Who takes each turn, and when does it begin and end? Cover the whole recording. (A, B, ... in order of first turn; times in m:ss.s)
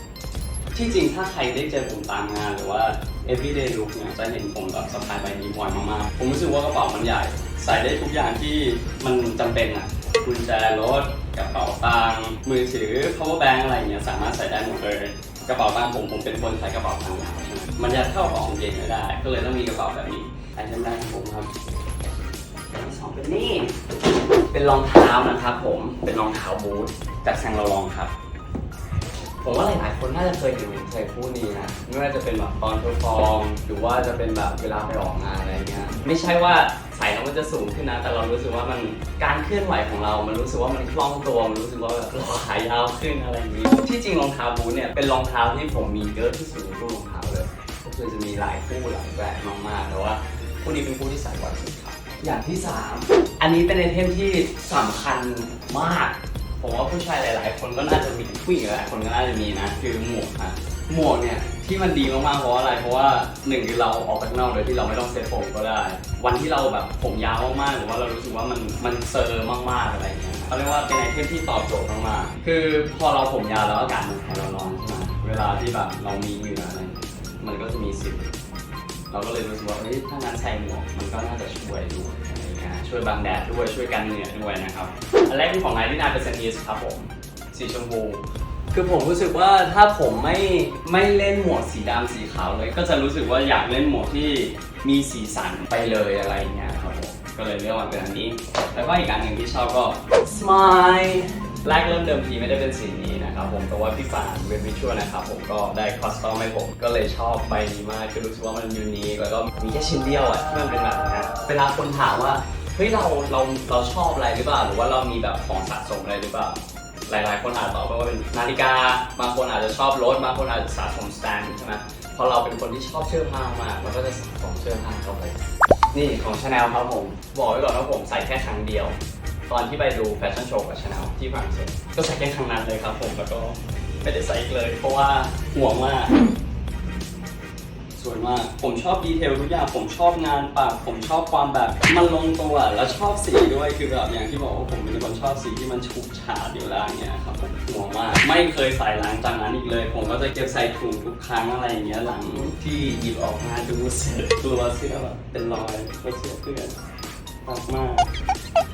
0:00.7-0:21.5 A
0:22.7-0:23.8 A
0:24.5-0:28.1 A
0:29.4-1:18.3 A
1:19.1-2:05.4 A
2:05.9-2:09.0 A
2:09.5-2:16.1 A
2:18.0-2:36.8 A
2:37.4-2:38.1 A